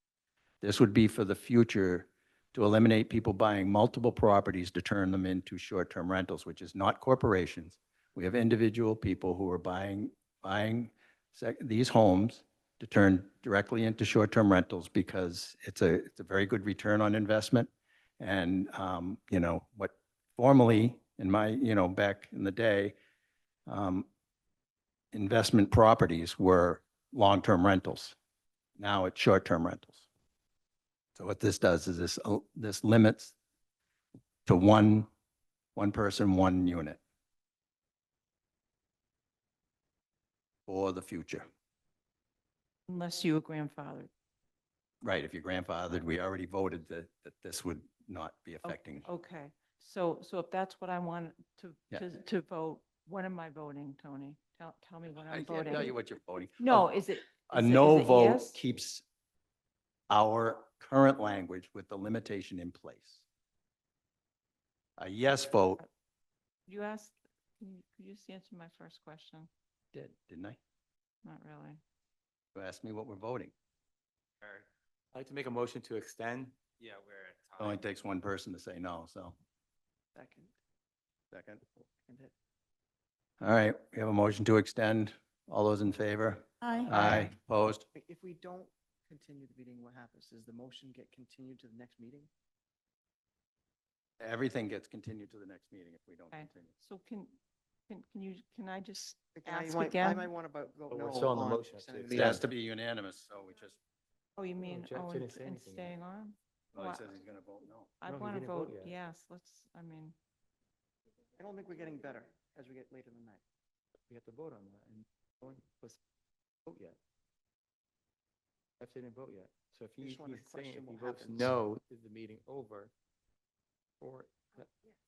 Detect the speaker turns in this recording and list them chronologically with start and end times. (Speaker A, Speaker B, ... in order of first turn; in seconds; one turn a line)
Speaker A: 0.6-23.0
Speaker A: 23.7-24.1
Speaker A: 25.1-28.2
Speaker A: 28.8-30.1
Speaker A: 31.2-33.4
Speaker A: 34.5-35.1
Speaker A: 35.8-37.0
Speaker A: 40.7-41.5
Speaker B: 42.9-44.1
Speaker A: 45.0-49.1
Speaker B: 48.6-56.0
Speaker A: 55.3-56.9
Speaker B: 56.6-58.6
Speaker A: 57.5-59.0
Speaker A: 60.1-63.3
Speaker A: 65.0-65.8
Speaker B: 66.7-69.5
Speaker A: 69.9-70.6
Speaker B: 71.2-71.8
Speaker A: 72.5-73.5
Speaker C: 74.4-77.8
Speaker A: 77.6-79.4
Speaker D: 80.2-80.5
Speaker A: 81.3-81.6
Speaker D: 82.1-82.3
Speaker A: 83.4-87.9
Speaker B: 86.8-87.2
Speaker D: 87.9-92.3
Speaker A: 94.2-96.7
Speaker B: 96.3-97.3
Speaker B: 97.9-100.3
Speaker D: 99.3-102.4
Speaker C: 100.9-102.4
Speaker A: 102.1-103.8
Speaker B: 104.4-107.1
Speaker C: 104.6-105.9
Speaker A: 106.7-107.9
Speaker B: 108.0-110.2
Speaker C: 108.0-109.0
Speaker D: 111.4-113.4
Speaker C: 114.1-116.0
Speaker C: 116.7-117.0
Speaker C: 118.8-122.9
Speaker D: 120.0-121.6
Speaker C: 124.0-124.7